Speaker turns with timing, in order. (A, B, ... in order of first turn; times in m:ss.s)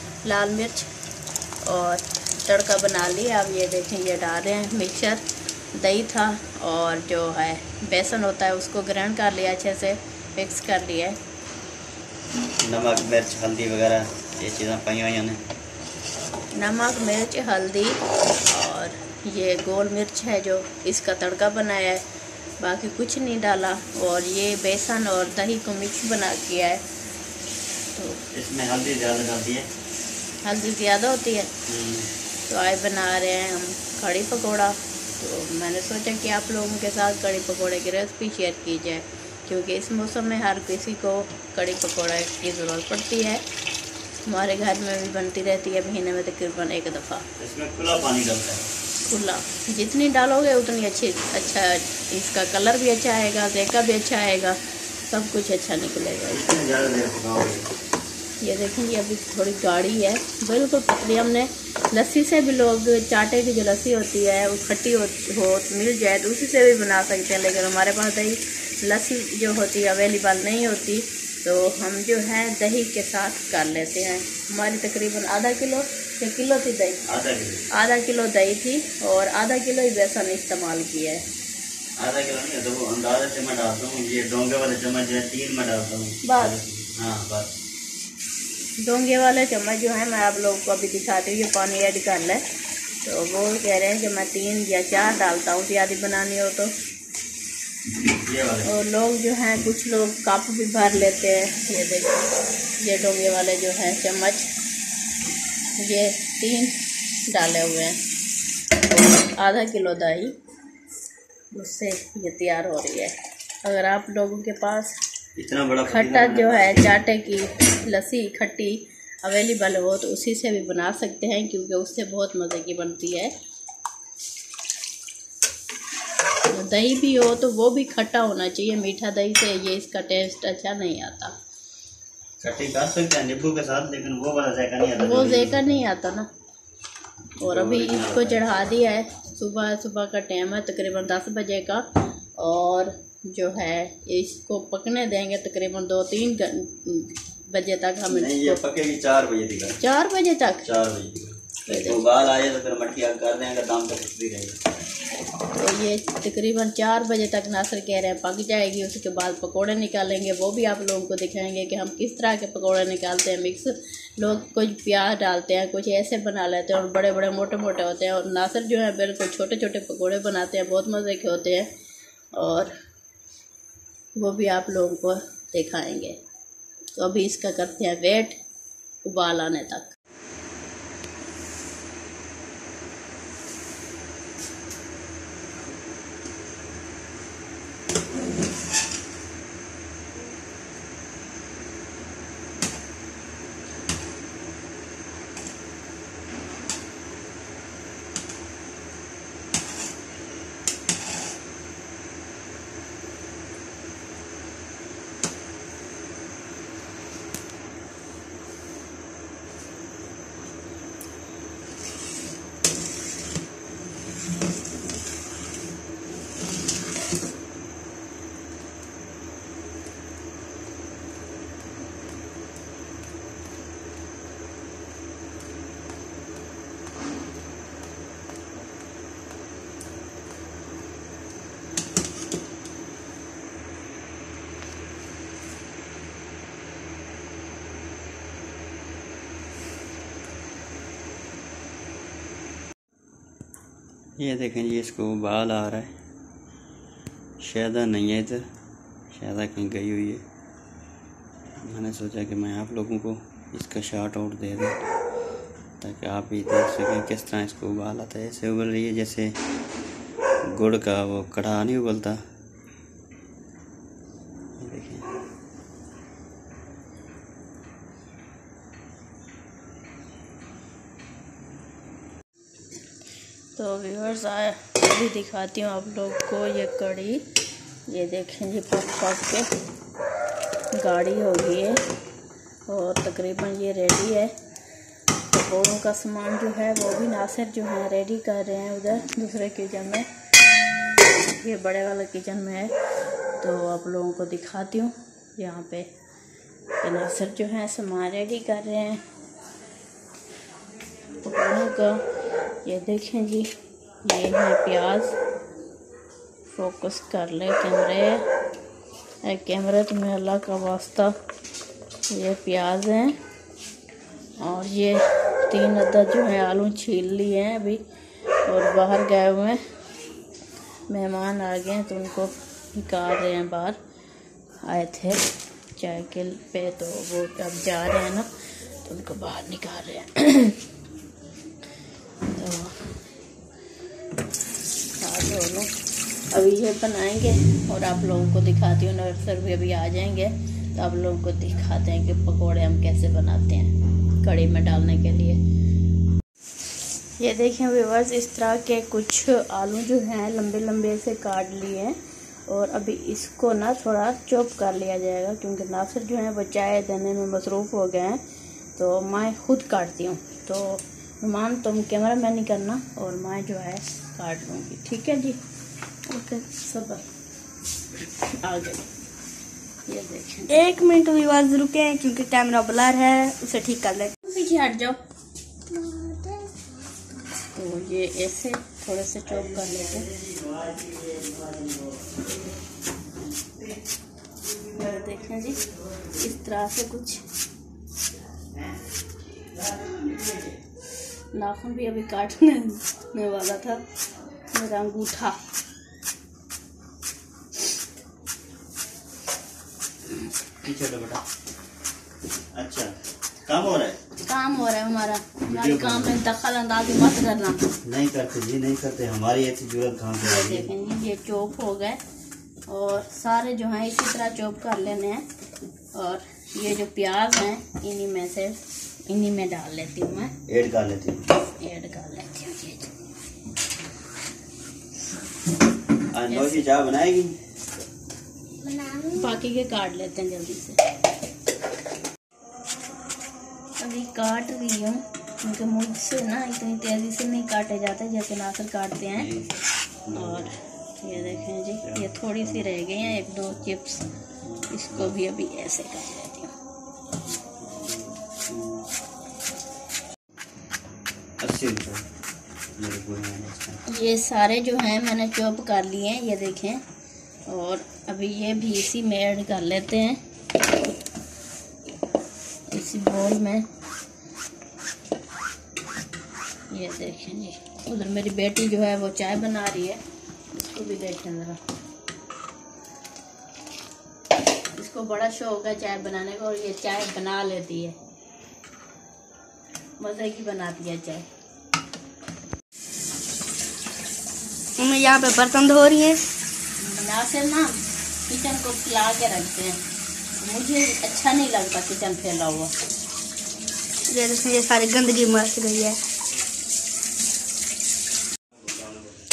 0:00.2-0:00.9 A
0:01.6-0:05.2 A
0:05.7-0:11.2 A
0:12.6-0:15.4 B
0:16.5-0:22.0 A
0:22.6-0:26.8 A
0:27.9-0:28.2 A
0:28.3-0:29.7 B
0:30.4-0:31.5 A
0:31.7-0:32.1 B
0:32.5-0:43.4 A
0:44.2-0:47.3 A
0:47.4-0:48.7 B
0:49.0-0:54.6 A
0:55.1-0:56.4 A
0:56.3-0:57.7 B
0:58.4-1:17.0 A
1:17.1-1:17.7 B
1:17.7-1:21.3 A
1:22.0-1:27.5 B
1:26.2-1:26.6 A
1:28.8-1:32.4 A
1:33.0-1:36.7 A
1:38.1-1:38.7 B
1:38.6-1:44.5 A
1:45.8-1:46.7 A
1:47.3-1:48.0 A
1:48.9-1:50.3 A
1:51.5-1:55.0 A
1:55.4-1:56.9 B
1:55.9-2:03.3 A
2:06.5-2:11.4 A
2:12.4-2:15.8 B
2:15.0-2:16.3 A
2:17.4-2:28.6 A
2:17.4-2:18.4 B
2:28.1-2:29.8 B
2:29.8-2:30.7 A
2:30.6-2:34.6 B
2:31.7-2:32.0 A
2:35.5-2:51.7 A
2:52.3-2:52.7 A
2:54.2-2:56.2 A
2:57.0-2:58.4 A
2:59.0-2:59.9 A
4:04.2-4:05.9 B
4:07.4-4:08.4 B
4:09.1-4:10.2 B
4:11.6-4:14.8 B
4:15.8-4:19.3 B
4:20.5-4:22.2 B
4:24.6-4:25.1 B
4:33.6-4:37.2 A
4:37.9-4:39.5 A
4:40.7-4:41.8 A
4:42.7-4:44.3 A
4:45.3-4:50.1 A
4:51.3-4:52.7 A
4:53.4-4:55.9 A
4:56.8-4:59.0 A
5:01.2-5:02.0 A
5:02.6-5:03.5 A
5:04.0-5:05.2 A
5:06.5-5:08.2 A
5:09.2-5:11.2 A
5:12.1-5:13.2 A
5:14.4-5:17.8 A
5:18.4-5:19.6 A
5:20.9-5:23.8 A
5:24.6-5:25.2 A
5:25.8-5:28.3 A
5:28.8-5:30.6 A
5:32.3-5:33.0 A
5:35.0-5:35.7 A
5:36.3-5:45.4 A
5:47.2-5:52.0 A
5:52.5-5:58.2 A
5:58.8-6:05.4 A
6:06.1-6:07.0 A
6:08.2-6:08.8 A
6:09.9-6:10.7 A
6:10.5-6:14.1 C
6:14.2-6:15.0 A
6:15.8-6:16.5 C
6:17.5-6:20.1 A
6:19.5-6:22.2 B
6:24.6-6:27.2 A
6:29.6-6:30.5 B
6:31.3-6:33.8 A
6:34.5-6:35.4 A
6:40.6-6:41.2 B
6:42.5-6:43.0 B
6:43.5-6:44.0 B
6:44.2-6:47.7 A
6:45.4-6:46.2 B
6:47.8-6:50.7 B
6:50.2-6:52.0 A
6:52.7-6:55.2 A
6:55.9-7:00.3 A
7:00.5-7:01.2 B
7:01.6-7:02.9 A
7:06.1-7:07.4 B
7:06.3-7:06.6 A
7:09.0-7:10.8 A
7:13.8-7:19.3 A
7:19.2-7:20.5 B
7:20.1-7:24.1 A
7:21.1-7:25.2 B
7:24.7-7:26.5 A
7:27.4-7:28.8 B
7:31.4-7:32.0 B
7:32.8-7:33.8 B
7:33.9-7:36.8 A
7:37.5-7:40.2 A
7:42.7-7:43.6 A
7:46.7-7:50.0 A
7:50.5-7:51.6 A
7:54.7-7:58.0 A
8:00.0-8:01.3 A
8:04.8-8:06.3 C
8:06.8-8:09.8 A
8:10.4-8:12.7 A
8:14.1-8:16.0 C